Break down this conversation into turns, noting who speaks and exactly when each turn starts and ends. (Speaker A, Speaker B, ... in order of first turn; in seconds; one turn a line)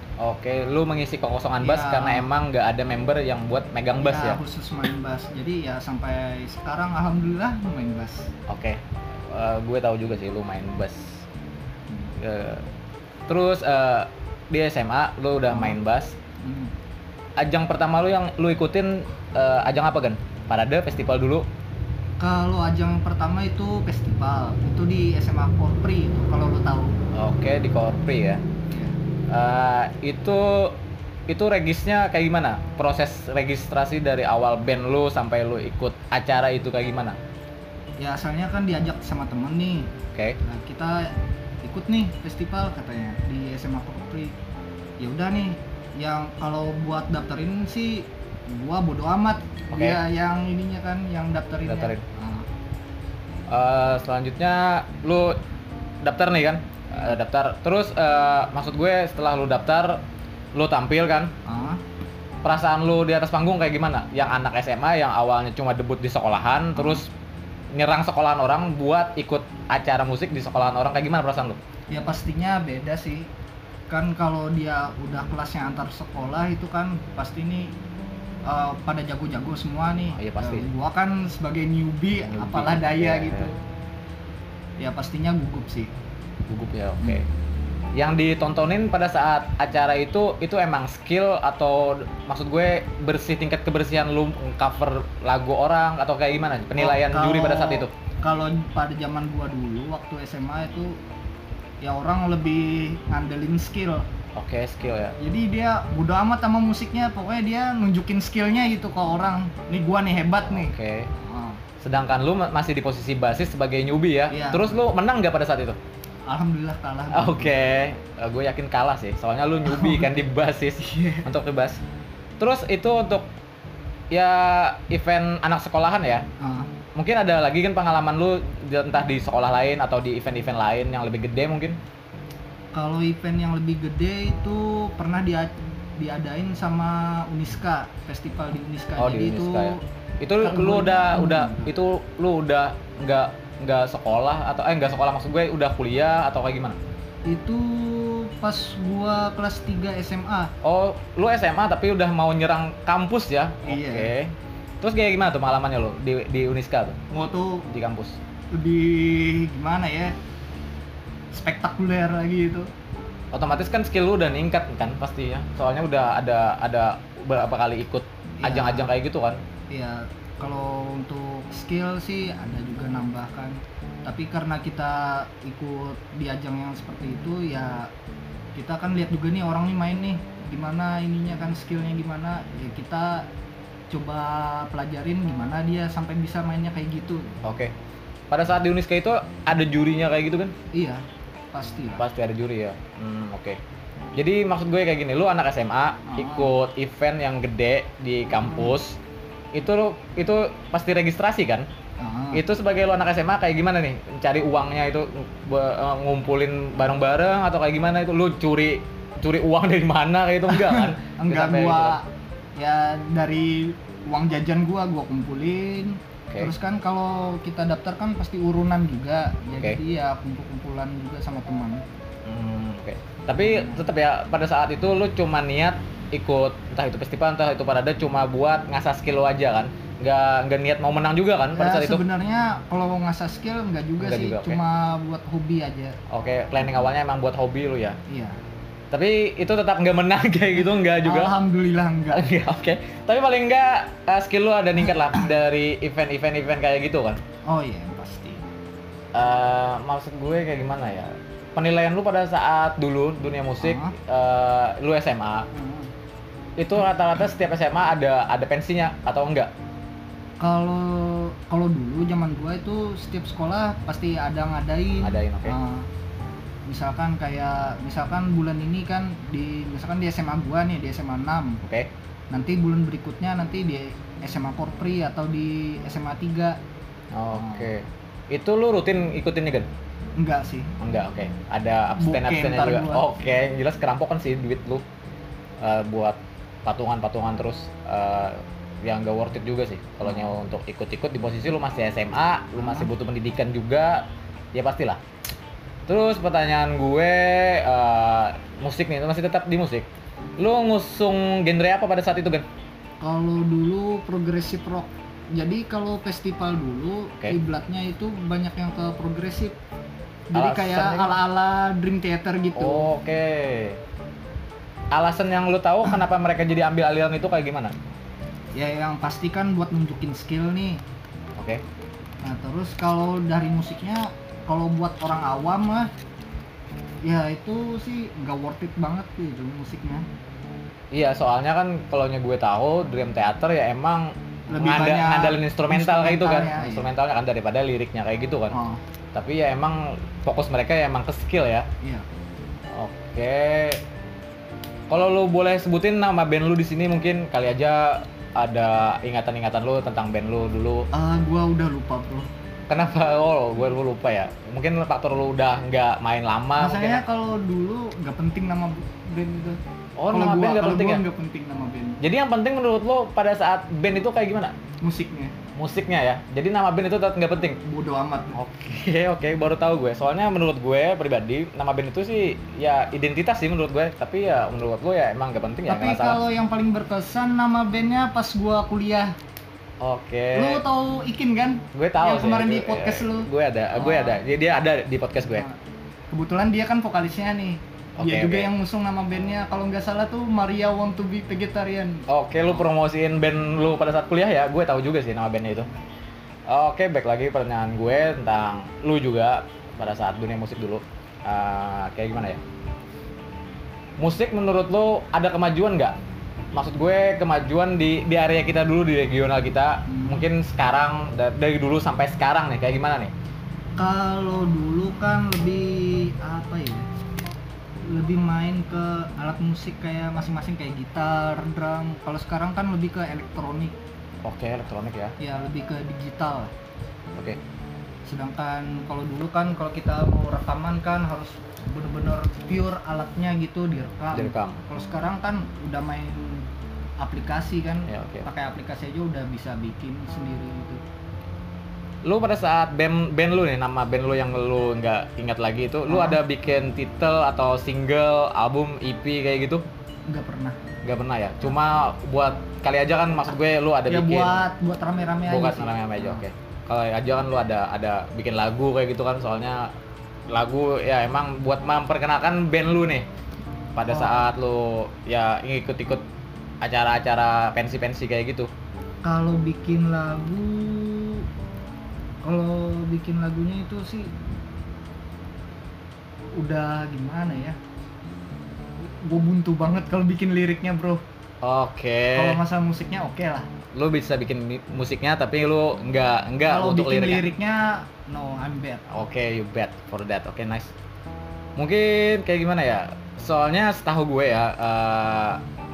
Speaker A: 0.2-4.4
Speaker B: 1.6-2.3
Speaker B: 4.0-8.3
Speaker A: 8.5-11.2
Speaker A: 12.2-12.6
Speaker A: 13.3-16.1
Speaker B: 15.5-15.8
Speaker B: 16.4-16.7
Speaker A: 17.4-21.4
Speaker B: 22.2-27.0
Speaker A: 27.1-28.4
Speaker B: 28.7-28.9
Speaker A: 29.3-30.8
Speaker A: 31.3-37.2
Speaker B: 38.0-39.9
Speaker B: 40.4-44.4
Speaker B: 45.0-52.5
Speaker A: 49.7-50.0
Speaker A: 51.6-52.0
Speaker A: 53.5-55.4
Speaker A: 56.0-60.0
Speaker A: 60.5-61.3
Speaker B: 61.5-61.8
Speaker A: 62.4-67.1
Speaker B: 66.8-67.0
Speaker A: 67.7-71.6
Speaker B: 71.9-73.3
Speaker B: 73.9-77.7
Speaker B: 78.5-83.5
Speaker A: 80.1-80.7
Speaker A: 82.2-83.5
Speaker B: 84.8-85.9
Speaker A: 86.5-87.2
Speaker A: 88.0-97.9
Speaker B: 96.8-100.9
Speaker B: 101.8-104.0
Speaker A: 104.3-105.2
Speaker B: 105.2-111.6
Speaker A: 110.4-111.1
Speaker A: 111.8-115.8
Speaker B: 114.3-114.8
Speaker B: 116.3-117.5
Speaker A: 117.1-121.8
Speaker B: 119.7-120.1
Speaker B: 120.8-121.3
Speaker A: 122.4-123.3
Speaker A: 124.1-126.2
Speaker B: 126.4-126.7
Speaker A: 127.0-131.8
Speaker B: 132.7-139.8
Speaker A: 139.0-146.8
Speaker B: 140.4-141.7
Speaker B: 147.3-150.5
Speaker A: 150.6-157.0
Speaker B: 153.6-154.1
Speaker B: 157.1-157.7
Speaker A: 157.7-158.2
Speaker B: 158.5-160.2
Speaker B: 161.3-162.7
Speaker A: 163.3-169.4
Speaker B: 168.4-168.9
Speaker B: 169.7-177.9
Speaker B: 178.5-183.3
Speaker B: 183.9-187.4
Speaker A: 187.4-187.7
Speaker A: 188.3-190.5
Speaker B: 190.7-191.0
Speaker B: 191.5-192.0
Speaker A: 192.0-193.6
Speaker A: 194.1-199.0
Speaker B: 196.1-196.5
Speaker B: 198.4-198.7
Speaker A: 199.5-201.7
Speaker B: 202.0-202.4
Speaker A: 202.3-212.0
Speaker B: 210.5-221.8
Speaker A: 222.2-232.0
Speaker B: 223.4-223.8
Speaker B: 231.5-235.9
Speaker A: 234.0-234.6
Speaker A: 236.1-238.0
Speaker B: 238.1-238.4
Speaker A: 238.9-241.3
Speaker B: 241.0-242.2
Speaker A: 242.1-247.2
Speaker B: 247.4-248.4
Speaker A: 249.1-255.4
Speaker B: 253.6-253.9
Speaker B: 255.5-255.9
Speaker A: 256.6-259.5
Speaker B: 260.4-265.9
Speaker A: 265.0-265.5
Speaker B: 266.7-271.6
Speaker A: 271.6-271.9
Speaker B: 272.3-276.6
Speaker A: 277.1-279.7
Speaker B: 277.4-277.7
Speaker B: 280.2-280.7
Speaker A: 280.8-284.8
Speaker B: 281.9-283.0
Speaker A: 285.6-295.0
Speaker B: 290.0-290.3
Speaker B: 292.6-292.9
Speaker A: 295.9-299.9
Speaker A: 300.4-302.4
Speaker B: 303.0-309.6
Speaker B: 310.3-312.9
Speaker A: 310.3-311.2
Speaker A: 312.6-313.8
Speaker A: 314.9-317.7
Speaker B: 318.5-320.8
Speaker A: 321.4-321.6
Speaker B: 322.2-325.9
Speaker B: 327.0-330.1
Speaker A: 330.9-338.6
Speaker B: 334.5-336.9
Speaker B: 338.5-338.8
Speaker A: 339.1-341.7
Speaker A: 342.8-343.8
Speaker A: 344.9-350.9
Speaker B: 350.9-352.3
Speaker A: 352.7-357.0
Speaker B: 356.6-359.6
Speaker A: 360.0-361.0
Speaker B: 360.1-362.0
Speaker A: 362.0-364.5
Speaker B: 364.8-365.3
Speaker A: 365.5-367.6
Speaker B: 367.6-368.4
Speaker A: 368.3-376.2
Speaker B: 375.7-379.1
Speaker A: 379.8-380.6
Speaker B: 380.3-384.2
Speaker A: 381.7-385.4
Speaker B: 386.1-392.0
Speaker A: 388.0-388.5
Speaker A: 392.1-395.7
Speaker A: 396.5-402.4
Speaker A: 404.0-405.9
Speaker A: 406.5-413.1
Speaker B: 409.9-410.2
Speaker B: 413.8-416.9
Speaker B: 417.8-423.8
Speaker A: 424.2-425.1
Speaker B: 425.2-426.5
Speaker B: 428.1-436.5
Speaker A: 434.1-434.6
Speaker B: 437.0-440.8
Speaker A: 437.9-438.3
Speaker A: 442.0-449.6
Speaker B: 445.9-446.2
Speaker B: 450.1-450.6
Speaker A: 450.8-454.4
Speaker B: 453.9-456.2
Speaker A: 455.3-459.7
Speaker A: 460.3-463.1
Speaker A: 463.7-466.0
Speaker B: 463.9-464.3
Speaker A: 466.6-468.5
Speaker B: 469.0-471.2
Speaker B: 472.2-474.1
Speaker B: 476.4-477.6
Speaker B: 478.8-481.0
Speaker A: 481.4-482.4
Speaker B: 482.1-483.5
Speaker A: 483.7-487.2
Speaker B: 486.5-488.8
Speaker A: 488.9-490.7
Speaker A: 491.6-495.4